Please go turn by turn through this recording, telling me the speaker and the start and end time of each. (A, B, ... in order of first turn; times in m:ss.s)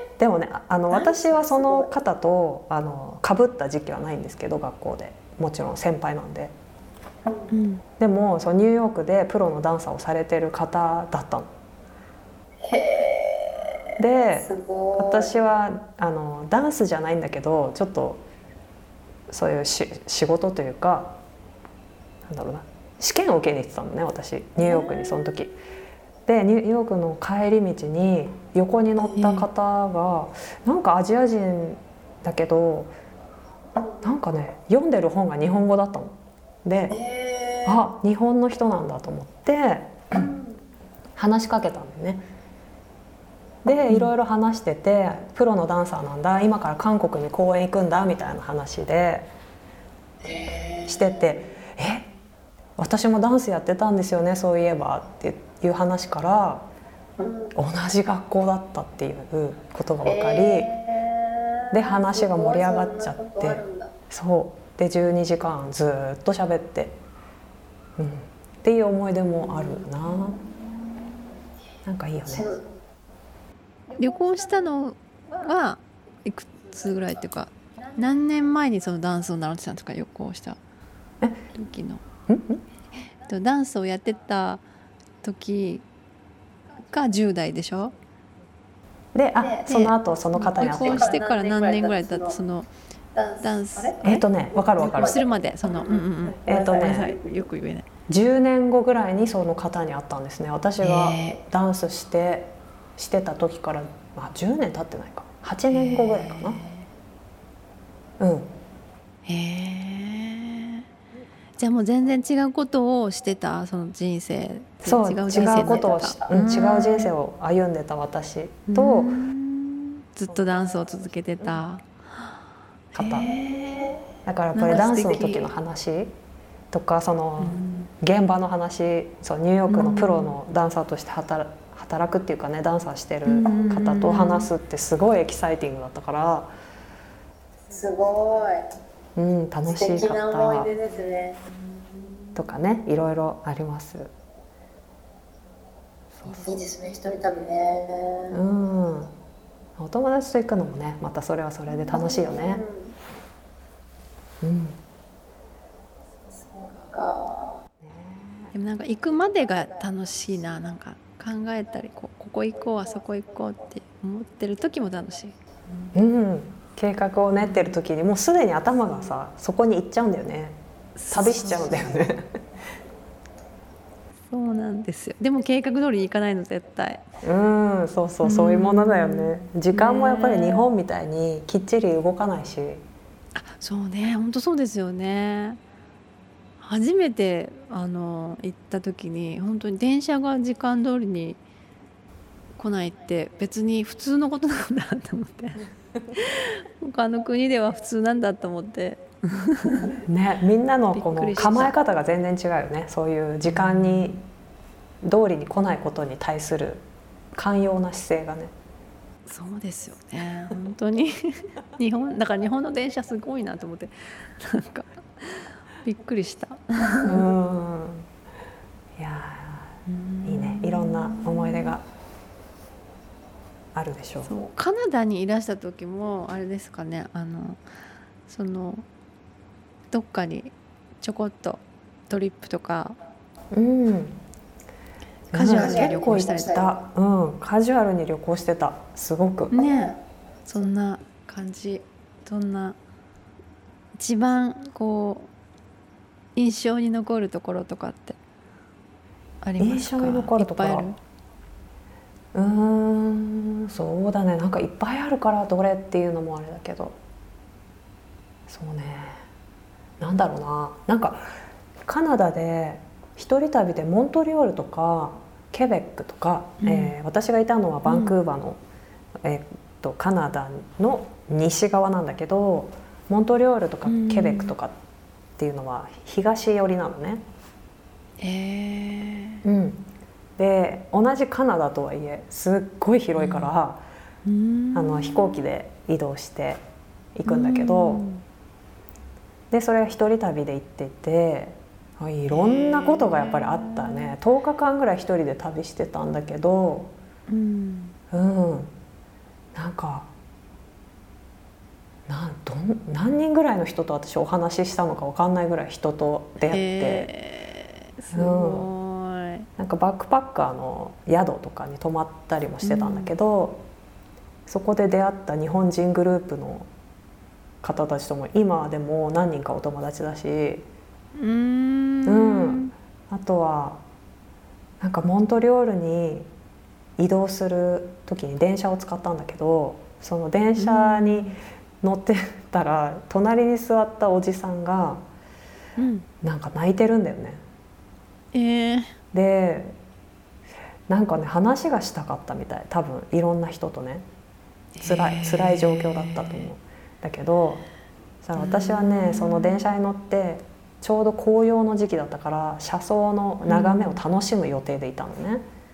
0:00.2-0:06.5 A
0:01.1-0:01.7 B
0:07.5-0:07.8 C
0:08.0-0:11.5 A
0:12.6-0:13.9 B
0:14.0-0:18.2 A
0:14.5-0:15.2 B
0:19.3-0:21.2 A
0:22.2-0:25.6 A
0:26.3-0:32.9 A
0:29.2-0:29.5 C
0:34.0-0:37.0 A
0:37.0-0:37.7 B
0:37.6-0:40.3 A
0:41.2-0:42.2 A
0:43.6-0:49.3 A
0:50.2-0:51.1 B
0:50.9-0:52.1 A
0:52.8-0:56.7 A
0:57.2-0:57.5 B
0:57.5-1:00.7 A
1:00.1-1:03.9 B
1:01.7-1:07.0 A
1:08.0-1:10.4 A
1:11.8-1:12.5 A
1:13.9-1:20.6 C
1:21.5-1:22.0 C
1:22.3-1:22.6 A
1:23.2-1:24.6 C
1:25.2-1:25.8 C
1:26.9-1:28.0 C
1:29.1-1:31.2 A
1:29.6-1:32.7 C
1:30.6-1:32.3 B
1:33.2-1:34.0 B
1:33.4-1:34.2 C
1:34.0-1:35.2 A
1:34.8-1:37.9 C
1:35.0-1:35.6 B
1:36.4-1:37.1 B
1:36.4-1:37.1 A
1:38.1-1:46.6 A
1:40.8-1:41.4 C
1:45.7-1:46.9 C
1:48.2-1:48.5 A
1:49.3-1:50.8 C
1:51.6-1:57.1 C
1:54.8-1:59.2 A
1:55.7-1:56.1 B
1:58.7-2:02.3 C
2:00.3-2:00.8 A
2:02.9-2:05.5 C
2:03.0-2:03.4 A
2:04.2-2:06.2 A
2:06.7-2:16.5 A
2:07.4-2:07.9 C
2:09.7-2:10.4 C
2:13.3-2:14.5 C
2:17.7-2:18.7 B
2:19.2-2:20.7 A
2:19.8-2:21.3 B
2:20.5-2:21.5 C
2:22.4-2:24.1 A
2:26.1-2:26.6 A
2:26.3-2:26.7 C
2:26.5-2:28.4 B
2:28.3-2:29.1 A
2:29.8-2:32.6 A
2:32.0-2:32.9 B
2:34.4-2:34.8 A
2:36.5-2:37.6 B
2:37.8-2:38.5 A
2:38.5-2:46.0 C
2:45.9-2:50.6 A
2:47.4-2:47.7 C
2:51.0-2:52.1 C
2:51.1-2:52.3 A
2:54.3-2:57.0 C
2:57.2-3:02.8 A
2:58.2-3:00.7 C
3:03.4-3:05.6 C
3:06.6-3:11.4 C
3:12.6-3:20.0 C
3:19.8-3:24.2 A
3:20.9-3:21.8 C
3:23.5-3:24.2 C
3:25.0-3:28.5 A
3:29.3-3:37.3 C
3:37.0-3:38.1 A
3:39.0-3:41.8 A
3:39.9-3:41.8 C
3:43.7-3:44.4 A
3:44.2-3:47.6 C
3:48.3-3:48.8 C
3:49.9-3:53.0 C
3:53.5-3:54.2 A
3:55.3-3:56.5 C
3:55.3-3:59.5 A
3:55.4-3:56.7 B
3:59.5-4:02.8 C
4:04.0-4:05.3 C
4:06.4-4:08.2 C
4:09.4-4:11.0 C
4:09.6-4:10.9 A
4:12.3-4:17.0 A
4:18.5-4:19.2 A
4:20.0-4:21.3 A
4:21.8-4:28.6 A
4:26.6-4:27.0 C
4:27.8-4:28.2 C
4:29.2-4:34.8 A
4:33.8-4:34.6 C
4:35.4-4:37.2 A
4:38.2-4:39.4 C
4:39.4-4:39.8 A
4:40.4-4:43.8 A
4:43.2-4:43.5 C
4:44.2-4:45.5 C
4:44.7-4:46.6 A
4:47.2-4:48.0 A
4:47.3-4:48.2 C
4:49.5-4:56.9 A
4:52.3-4:54.1 C
4:57.3-4:58.0 C
4:58.1-4:58.7 A
4:59.6-5:00.1 A
5:02.1-5:07.1 A
5:06.5-5:09.5 C
5:08.1-5:08.7 A
5:09.6-5:13.6 A
5:12.6-5:13.2 C
5:14.5-5:16.7 A
5:17.6-5:20.7 A
5:21.2-5:22.7 C
5:22.1-5:23.8 A
5:24.8-5:26.3 A
5:27.0-5:35.0 A
5:30.6-5:31.4 C
5:35.8-5:36.1 C
5:36.2-5:37.4 A
5:38.3-5:39.0 C
5:39.1-5:39.8 A
5:40.9-5:44.0 A
5:44.8-5:46.5 C
5:44.8-5:47.7 A
5:48.2-5:55.4 A
5:48.4-5:49.7 C
5:53.4-5:54.0 C